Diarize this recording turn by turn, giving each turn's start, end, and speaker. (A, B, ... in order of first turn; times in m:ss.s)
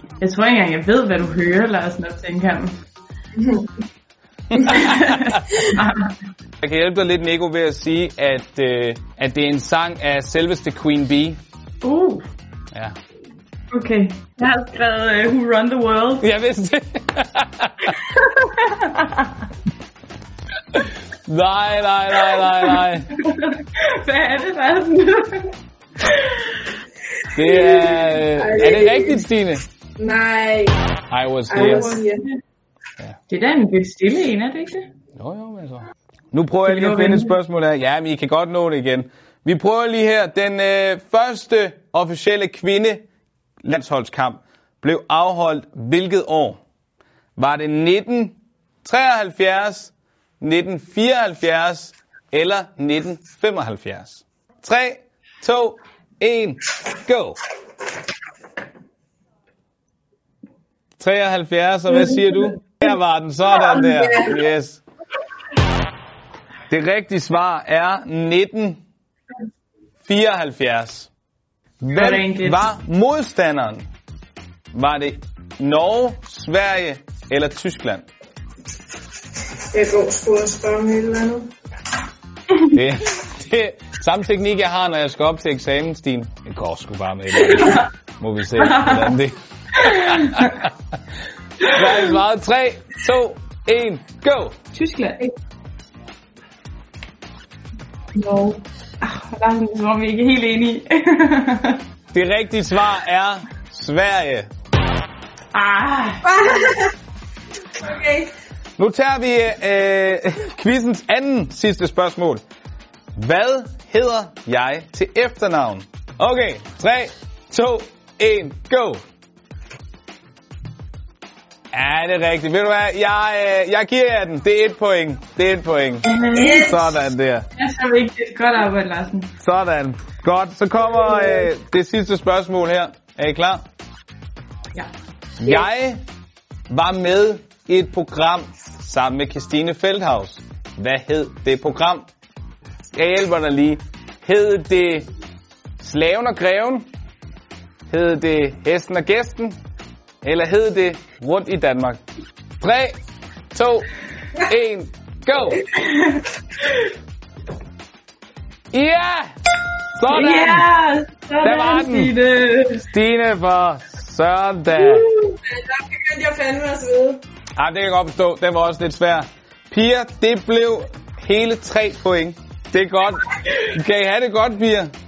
0:00.2-0:02.8 A
0:03.4-0:03.7 B
0:04.5-0:05.7 C
0:04.7-0:06.1 A
0:06.6-0:11.4 C
0:11.8-0:12.3 A
0:13.7-0:16.2 A
0:16.2-0:17.9 C
0:18.1-0:19.4 A
0:20.7-0:23.1 C
0:22.3-0:26.7 A
0:27.3-0:29.6 C
0:27.5-0:29.3 B
0:30.0-0:30.8 B
0:31.1-0:32.0 C
0:31.5-0:32.2 B
0:31.5-0:32.4 A
0:33.3-0:34.9 A
0:35.2-0:43.0 C
0:36.6-0:37.4 A
0:43.6-0:46.6 C
0:47.4-0:57.4 C
1:01.0-1:04.8 C
1:03.5-1:04.4 B
1:06.7-1:08.8 C
1:10.0-1:11.1 C
1:11.8-1:13.8 C
1:11.9-1:12.7 A
1:14.7-1:18.1 C
1:19.7-1:21.5 B
1:22.7-1:30.7 C
1:27.4-1:27.9 A
1:28.6-1:29.2 A
1:29.8-1:30.6 A
1:31.6-1:34.6 C
1:31.6-1:32.0 A
1:34.7-1:35.2 A
1:38.2-1:41.8 A
1:42.1-1:44.5 C
1:45.5-1:46.4 A
1:46.2-1:46.9 B
1:47.8-1:48.3 B
1:48.8-1:52.4 C
1:53.2-1:59.0 C
2:01.7-2:06.1 C
2:06.0-2:06.7 A
2:06.3-2:07.0 B
2:06.6-2:07.5 C
2:07.6-2:09.3 A
2:09.4-2:13.6 C
2:11.0-2:11.5 B
2:15.4-2:16.0 C
2:16.7-2:22.1 C
2:22.9-2:25.0 C
2:25.8-2:26.9 C
2:27.9-2:29.6 C
2:30.2-2:32.0 C
2:32.6-2:33.0 C
2:33.5-2:35.6 C
2:35.7-2:36.8 A
2:38.7-2:39.3 C
2:40.0-2:40.7 C
2:40.1-2:42.8 A
2:41.4-2:42.1 C
2:42.8-2:45.1 C
2:44.8-2:47.2 B
2:47.6-2:54.9 C